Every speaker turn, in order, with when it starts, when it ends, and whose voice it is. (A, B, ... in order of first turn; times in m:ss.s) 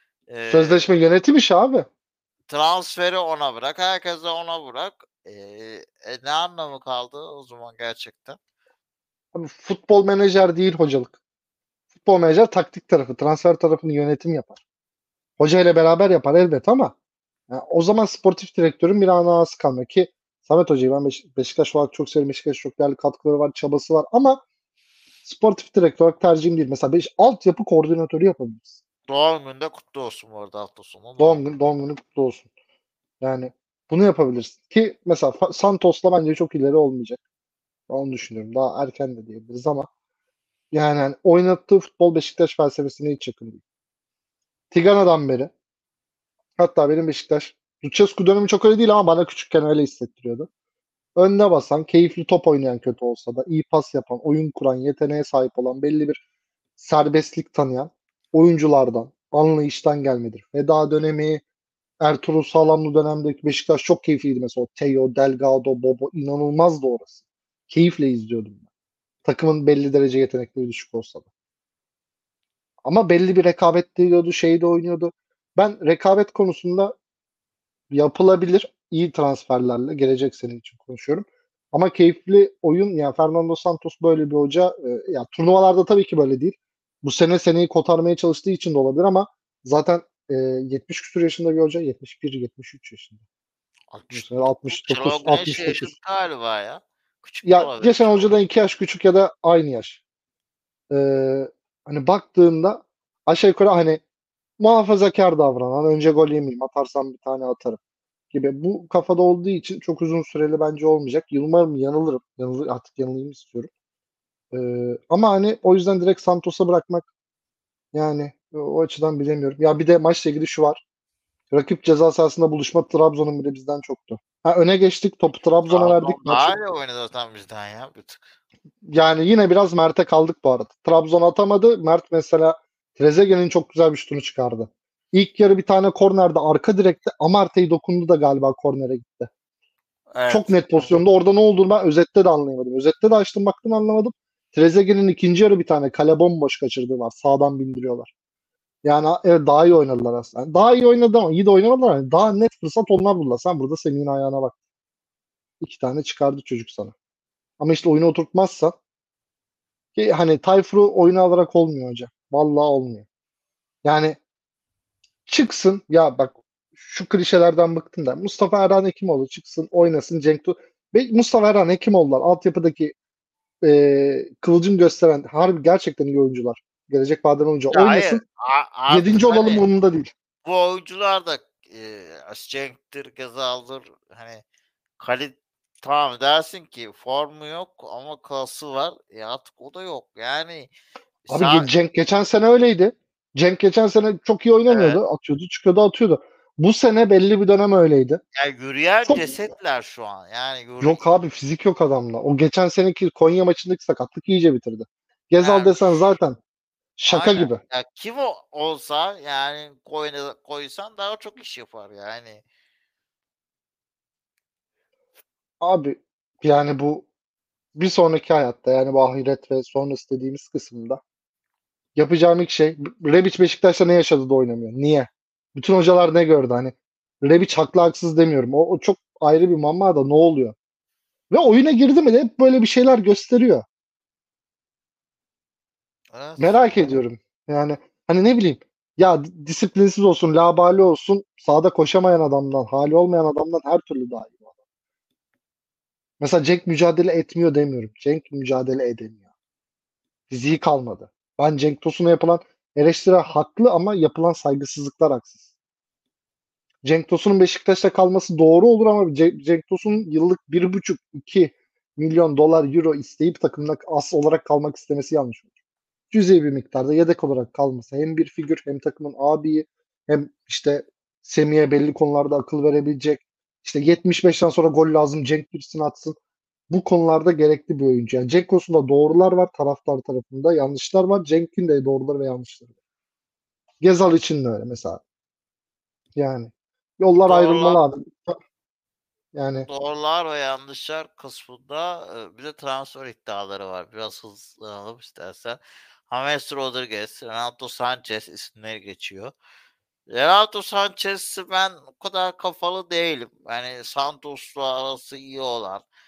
0:00.3-0:00.9 A
0:00.5-0:01.9 B
0:02.5-0:08.4 A
0:09.3-0:11.2 B
0:12.0-0:14.6 B
0:15.4-0:17.0 B
0:17.5-0:24.4 B
0:25.2-0:28.8 B
0:29.1-0:31.4 A
0:31.2-0:32.5 B
0:33.2-0:37.2 B
0:37.9-0:39.9 B
0:40.7-0:43.6 B
0:44.7-0:45.5 B
0:46.6-0:50.5 B
0:51.2-0:56.2 B
0:56.8-1:01.4 B
1:02.0-1:07.2 B
1:07.7-1:08.6 B
1:09.2-1:11.3 B
1:12.8-1:16.9 B
1:17.9-1:33.2 B
1:33.9-1:38.4 A
1:34.1-1:35.9 B
1:37.4-1:40.0 B
1:40.9-1:44.0 B
1:44.6-1:47.8 B
1:48.3-1:53.7 B
1:54.5-1:57.1 B
1:57.9-2:00.8 B
2:01.5-2:06.6 B
2:05.7-2:08.2 A
2:08.8-2:19.3 B
2:20.1-2:20.9 A
2:20.3-2:28.1 B
2:28.8-2:34.6 B
2:35.6-2:36.9 B
2:37.6-2:38.8 B
2:40.0-2:43.1 B
2:43.8-2:44.2 B
2:45.3-2:52.9 B
2:53.6-2:58.2 B
2:57.7-2:59.6 A
2:58.9-3:00.1 B
3:00.4-3:04.4 A
3:05.0-3:10.7 A
3:11.3-3:11.7 A
3:11.3-3:18.2 B
3:14.7-3:15.0 A
3:18.4-3:21.0 A
3:20.8-3:26.4 B
3:25.4-3:25.8 A
3:27.0-3:27.6 B
3:27.0-3:32.4 A
3:35.6-3:37.1 B
3:37.8-3:41.0 B
3:42.0-3:50.6 B
3:51.3-3:53.6 B
3:56.1-3:57.0 A
3:56.4-4:04.5 B
4:06.2-4:09.2 B
4:10.3-4:15.4 B
4:16.8-4:25.5 B
4:26.1-4:36.2 B
4:36.7-4:42.7 B
4:43.8-4:45.0 B
4:46.2-4:48.4 B
4:47.3-4:47.8 A
4:49.3-4:49.7 B
4:49.7-4:59.3 A
5:00.1-5:05.8 A